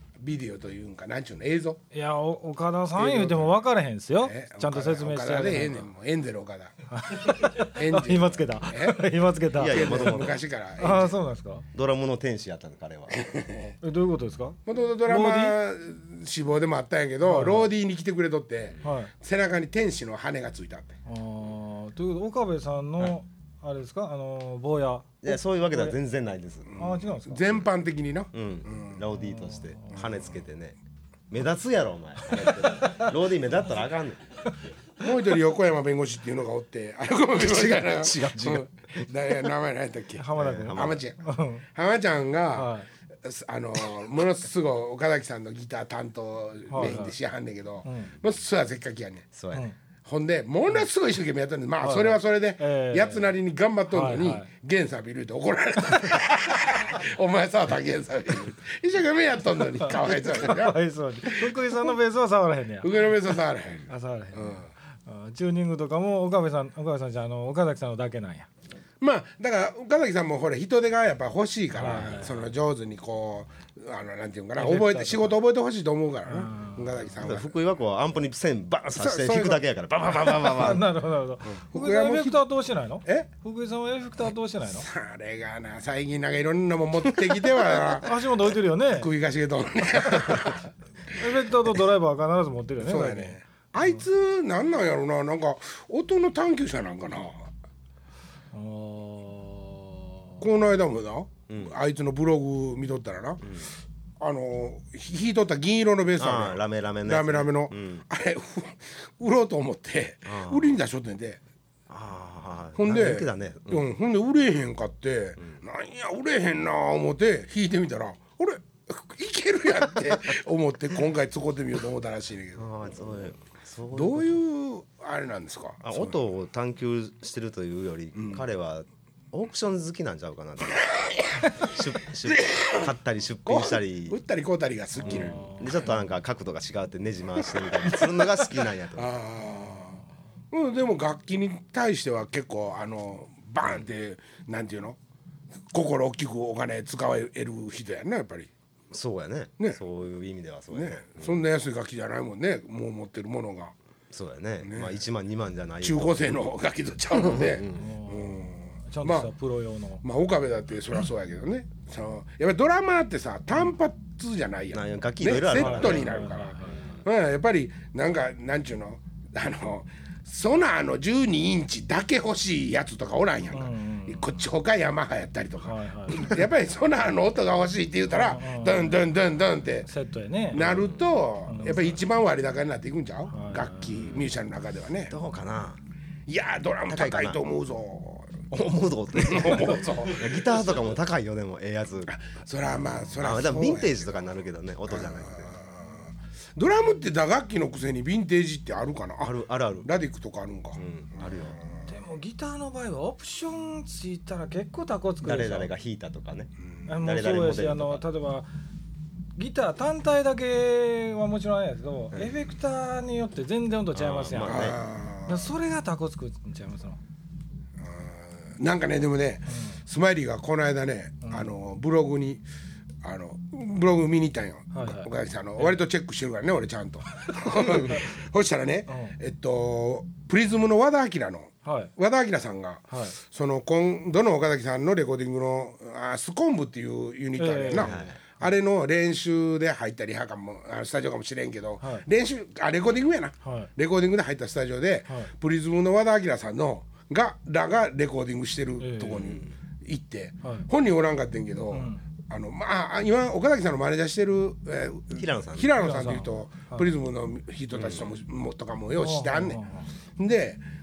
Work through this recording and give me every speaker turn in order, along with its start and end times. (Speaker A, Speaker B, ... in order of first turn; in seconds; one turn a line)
Speaker A: 0.2-1.8
Speaker B: 1.9-5.9
Speaker A: 3.0-3.6
Speaker A: 4.2-6.8
Speaker B: 6.9-10.2
Speaker A: 7.5-9.0
Speaker C: 9.5-10.4
Speaker A: 9.6-11.2
Speaker B: 10.8-11.7
Speaker C: 11.7-13.3
Speaker A: 13.1-13.8
Speaker B: 13.8-15.6
Speaker A: 14.7-21.0
Speaker B: 17.2-17.7
Speaker B: 18.8-19.1
Speaker B: 21.1-26.0
Speaker C: 25.2-26.8
Speaker A: 26.7-29.1
Speaker B: 26.8-27.6
Speaker C: 28.3-30.8
Speaker B: 29.2-30.2
Speaker C: 31.3-34.2
Speaker B: 32.3-33.1
Speaker A: 35.0-41.2
Speaker C: 37.4-39.5
Speaker B: 40.1-41.7
Speaker C: 40.4-41.0
Speaker A: 41.8-49.3
Speaker B: 42.5-42.9
Speaker B: 46.7-47.2
Speaker B: 47.9-48.1
Speaker C: 49.3-49.7
Speaker A: 50.0-60.8
Speaker B: 51.8-53.3
Speaker B: 53.9-54.5
Speaker B: 59.8-63.1
Speaker A: 61.3-61.8
Speaker A: 62.8-64.7
Speaker B: 63.9-68.5
Speaker A: 69.0-77.5
Speaker B: 71.7-72.5
Speaker B: 74.6-75.4
Speaker B: 76.3-77.1
Speaker C: 77.2-80.9
Speaker A: 79.0-79.6
Speaker B: 80.3-84.9
Speaker A: 81.5-82.4
Speaker A: 84.8-90.7
Speaker B: 87.7-89.1
Speaker B: 91.2-93.4
Speaker A: 92.8-97.5
Speaker B: 98.5-100.4
Speaker A: 100.4-103.4
Speaker C: 101.5-101.8
Speaker C: 103.4-103.7
Speaker A: 104.2-111.4
Speaker C: 106.2-108.0
Speaker C: 110.3-110.7
Speaker C: 111.9-113.9
Speaker A: 112.8-122.7
Speaker C: 122.6-124.4
Speaker A: 123.9-126.2
Speaker C: 125.8-130.9
Speaker A: 128.2-128.4
Speaker A: 130.8-131.4
Speaker C: 131.5-134.2
Speaker A: 132.3-132.9
Speaker A: 133.5-135.7
Speaker C: 135.0-139.1
Speaker B: 135.1-135.7
Speaker A: 137.5-140.0
Speaker A: 140.5-145.0
Speaker A: 145.7-148.5
Speaker C: 148.9-151.4
Speaker A: 150.7-153.7
Speaker C: 154.1-156.4
Speaker A: 154.6-155.0
Speaker A: 155.8-159.3
Speaker C: 157.1-157.9
Speaker B: 157.8-160.0
Speaker A: 160.0-179.9
Speaker C: 164.7-167.0
Speaker B: 165.5-166.9
Speaker B: 173.5-174.4
Speaker B: 175.6-176.3
Speaker B: 178.1-179.1
Speaker B: 179.9-180.7
Speaker A: 180.5-185.1
Speaker C: 180.6-181.1
Speaker B: 181.5-182.0
Speaker B: 183.3-184.1
Speaker C: 185.1-185.8
Speaker A: 186.3-188.5
Speaker C: 186.9-187.4
Speaker C: 188.5-192.2
Speaker A: 189.2-190.8
Speaker A: 192.1-194.2
Speaker C: 192.8-195.6
Speaker A: 194.9-201.8
Speaker C: 199.2-199.9
Speaker C: 200.8-201.6
Speaker B: 201.9-205.7
Speaker C: 205.2-208.1
Speaker B: 206.9-208.5
Speaker B: 209.4-217.0
Speaker C: 213.9-214.8
Speaker A: 214.4-215.5
Speaker A: 217.8-222.4
Speaker B: 219.5-219.8
Speaker A: 223.0-259.6
Speaker B: 224.7-225.8
Speaker B: 227.3-228.1
Speaker B: 228.9-229.2
Speaker B: 231.7-231.9
Speaker B: 232.9-233.2
Speaker B: 237.4-237.9
Speaker C: 237.7-238.2
Speaker B: 241.8-242.1
Speaker B: 243.4-243.7
Speaker B: 248.8-249.3
Speaker C: 249.2-249.5
Speaker B: 251.7-252.0
Speaker C: 255.2-255.7
Speaker B: 255.8-256.9
Speaker C: 257.7-258.1
Speaker B: 259.0-259.9
Speaker A: 260.2-260.6